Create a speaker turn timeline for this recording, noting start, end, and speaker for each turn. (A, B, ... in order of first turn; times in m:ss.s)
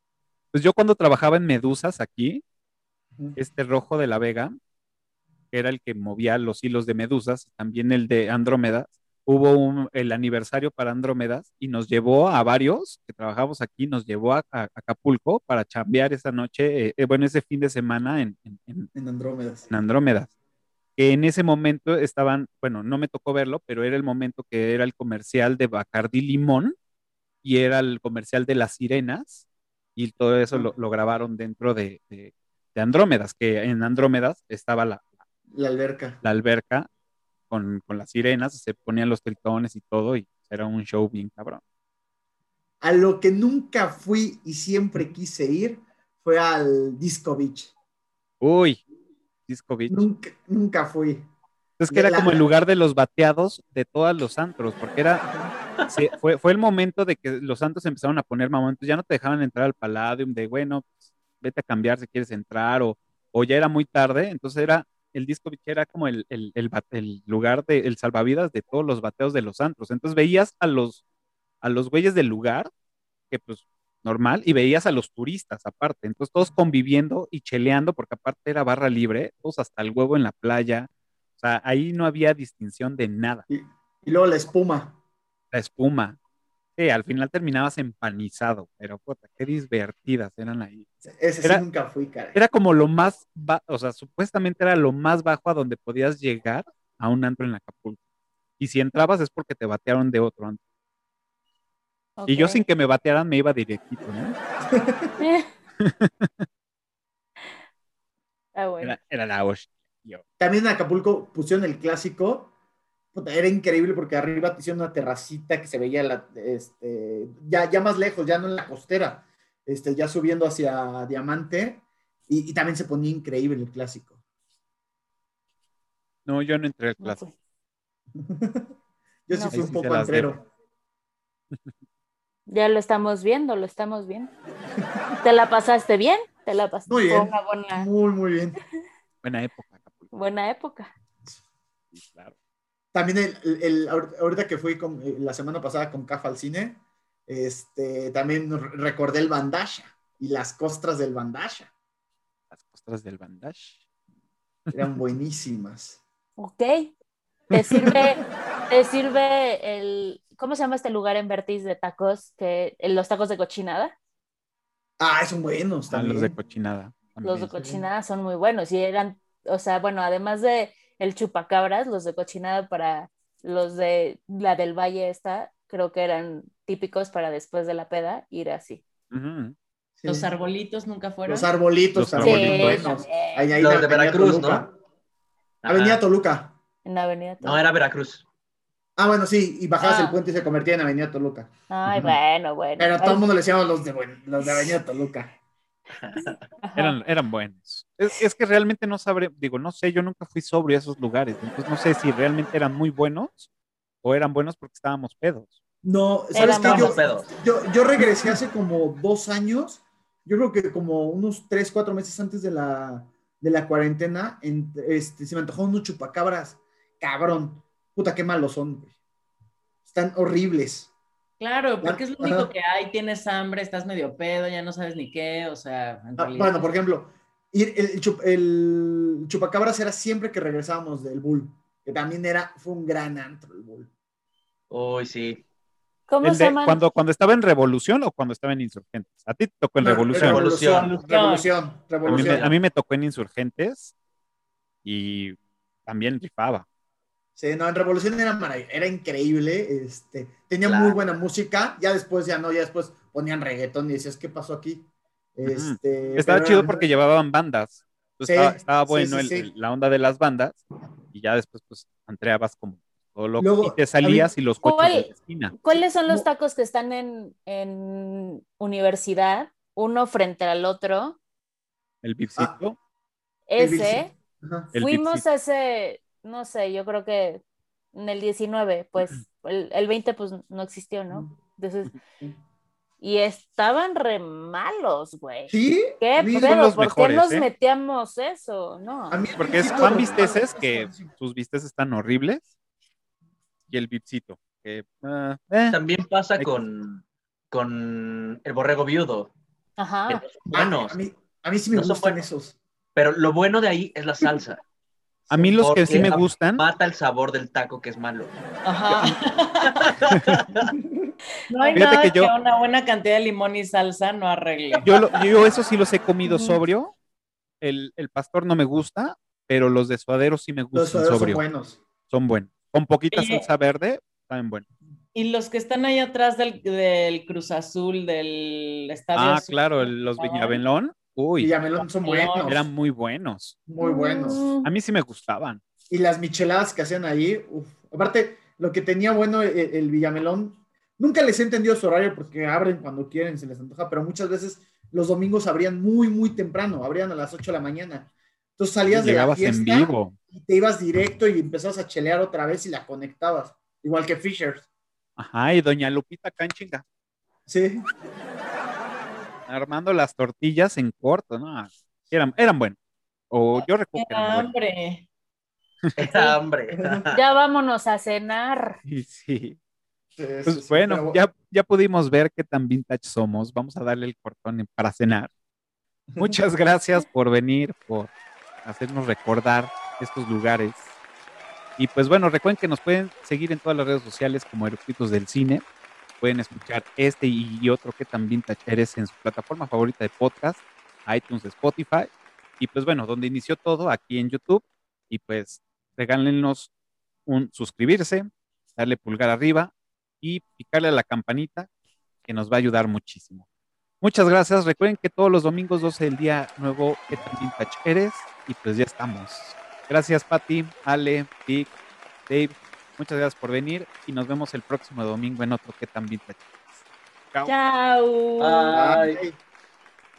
0:00.5-0:02.4 A
0:03.4-0:04.6 A
0:05.5-0:18.9 A
0:18.9-0:19.7 B
0:19.7-0:20.3 A
0:21.0-0:26.7 A
0:27.4-0:35.1 A
0:35.5-0:36.2 B
0:36.2-0:36.9 A
0:37.5-0:41.6 A
0:42.8-0:47.7 B
0:48.4-0:48.8 A
0:49.5-0:50.1 A
0:49.9-0:51.3 B
0:51.8-0:55.3 A
0:51.9-0:52.4 B
0:55.9-1:11.0 A
1:11.6-1:12.7 A
1:13.3-1:23.4 A
1:23.5-1:25.0 B
1:25.5-1:26.2 A
1:26.8-1:30.9 A
1:31.0-1:32.4 B
1:32.3-1:38.0 A
1:38.6-1:40.6 A
1:42.2-1:42.6 C
1:42.3-1:44.4 A
1:44.7-1:45.1 B
1:45.2-1:45.5 C
1:45.8-1:46.4 A
1:48.5-1:48.9 C
1:48.8-1:50.2 A
1:50.4-1:52.5 B
1:53.1-2:04.1 B
2:06.2-2:07.2 A
2:07.0-2:07.3 C
2:08.1-2:08.7 B
2:09.3-2:10.4 B
2:09.3-2:09.7 C
2:09.5-2:10.4 A
2:12.5-2:14.3 C
2:15.2-2:17.9 C
2:16.9-2:18.6 B
2:19.2-2:20.1 A
2:20.1-2:20.9 C
2:21.9-2:22.3 A
2:22.9-2:31.7 B
2:32.5-2:33.8 A
2:34.7-2:36.0 B
2:36.4-2:36.9 C
2:37.5-2:43.9 C
2:37.6-2:38.1 B
2:45.0-2:46.3 B
2:45.9-2:47.6 A
2:47.2-2:58.8 C
2:59.1-2:59.5 A
3:00.0-3:00.3 B
3:00.0-3:01.5 D
3:01.2-3:04.7 B
3:01.9-3:02.9 A
3:02.2-3:03.5 C
3:03.5-3:04.7 E
3:05.6-3:06.0 E
3:05.7-3:06.6 B
3:06.8-3:07.6 C
3:07.4-3:08.2 E
3:09.0-3:12.2 B
3:09.8-3:10.1 D
3:11.7-3:13.2 C
3:12.8-3:15.3 B
3:14.4-3:14.7 C
3:16.0-3:16.3 E
3:16.6-3:17.0 C
3:16.8-3:23.5 A
3:24.0-3:25.6 A
3:25.8-3:38.9 B
3:26.3-3:27.1 C
3:26.4-3:27.3 E
3:39.8-3:40.9 B
3:41.4-3:46.7 D
3:41.8-3:42.5 B
3:46.2-3:53.9 B
3:54.7-3:55.4 E
3:56.1-3:56.8 C
3:56.2-4:00.4 A
3:59.8-4:02.5 B
4:00.1-4:01.0 E
4:00.6-4:01.5 D
4:02.0-4:02.6 E
4:02.0-4:03.9 A
4:04.8-4:06.6 A
4:07.4-4:16.8 B
4:10.6-4:11.0 E
4:15.4-4:25.6 A
4:18.2-4:19.5 B
4:23.4-4:24.3 B
4:24.6-4:31.2 C
4:25.7-4:26.2 B
4:32.0-4:32.8 A
4:33.5-4:34.1 C
4:33.6-4:34.7 B
4:34.7-4:35.2 A
4:34.7-4:37.4 C
4:37.9-4:41.9 C
4:43.0-4:50.2 C
4:45.5-4:46.6 B
4:46.3-4:47.5 A
4:49.1-4:51.1 B
4:49.4-4:52.5 A
4:53.7-4:55.8 A
4:55.7-4:59.3 E
4:59.8-5:00.2 C
5:00.1-5:01.0 E
5:00.5-5:02.6 B
5:01.7-5:02.2 E
5:02.9-5:04.6 E
5:05.3-5:06.0 B
5:05.3-5:06.6 A
5:05.6-5:08.3 E
5:08.6-5:10.0 D
5:08.9-5:09.2 A
5:09.7-5:10.7 E
5:10.0-5:10.4 A
5:10.6-5:11.1 B
5:11.5-5:15.1 D
5:11.6-5:11.9 C
5:11.7-5:12.3 A
5:14.8-5:16.9 A
5:17.6-5:21.4 A
5:20.7-5:21.8 B
5:22.1-5:24.7 A
5:23.1-5:23.5 D
5:25.1-5:30.6 D
5:29.1-5:31.5 A
5:31.4-5:32.6 B
5:32.0-5:32.7 D
5:32.4-5:33.6 A
5:33.7-5:34.4 B
5:33.8-5:34.7 C
5:34.6-5:35.6 A
5:35.9-5:54.6 B
5:48.8-5:50.1 A
5:55.2-5:56.8 A
5:57.5-5:57.8 B
5:59.5-6:02.8 A
6:03.3-6:04.5 A
6:03.9-6:05.0 D
6:06.0-6:07.2 E
6:06.1-6:06.3 D
6:06.7-6:07.0 B
6:07.1-6:08.8 C
6:08.8-6:09.6 A
6:10.2-6:11.2 B
6:10.4-6:15.3 A
6:16.1-6:16.4 B
6:16.2-6:20.8 A
6:21.8-6:25.6 A
6:26.2-6:36.7 A
6:37.2-6:41.7 A
6:42.2-6:43.4 A
6:44.0-6:51.8 A
6:52.3-6:56.7 A
6:57.5-6:58.7 D
6:58.4-6:59.2 E
6:58.7-6:59.4 B